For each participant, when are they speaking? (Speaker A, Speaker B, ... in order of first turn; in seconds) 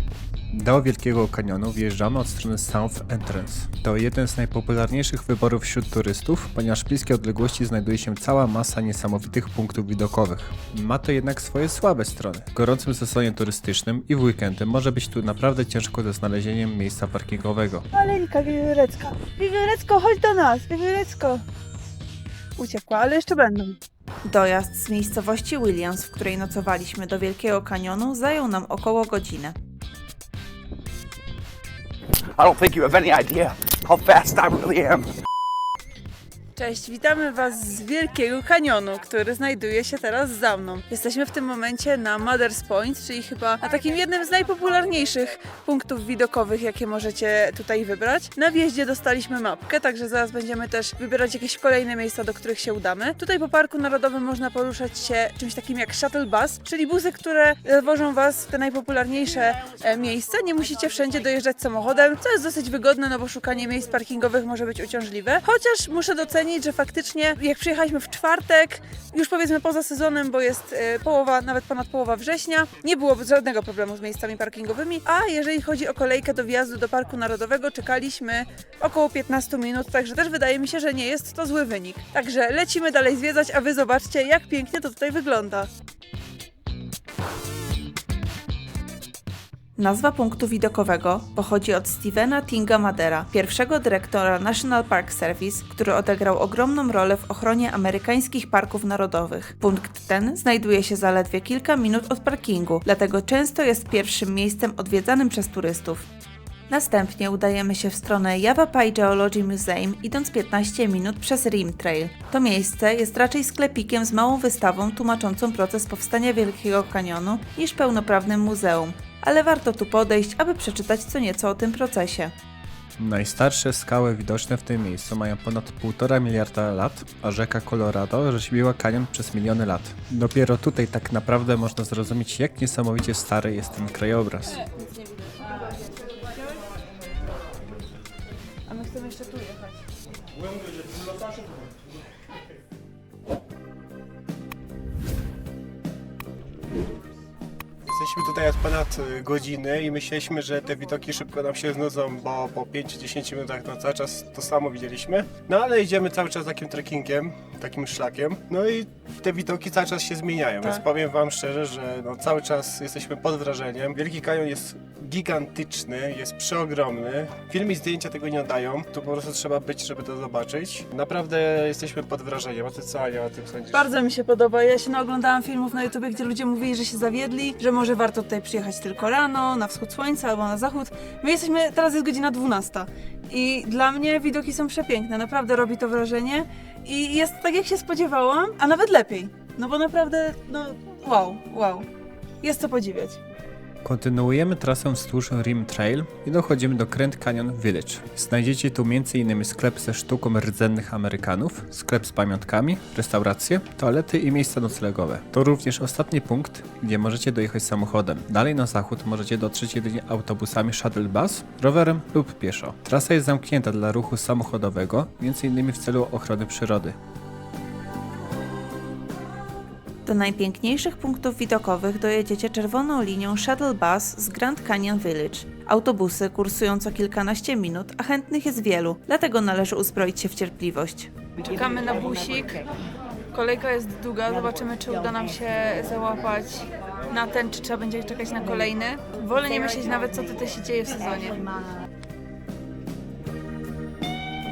Speaker A: 0.5-17.9, 123.0-134.6, 193.8-217.0
Speaker B: 17.9-21.4, 22.6-23.8, 36.6-85.7, 138.7-139.8, 173.7-191.9, 192.4-193.2, 231.5-232.6, 233.3-241.4
Speaker C: 24.3-29.6, 89.8-106.1, 106.7-122.3, 220.1-231.1
Speaker D: 32.3-35.1
Speaker E: 147.9-173.9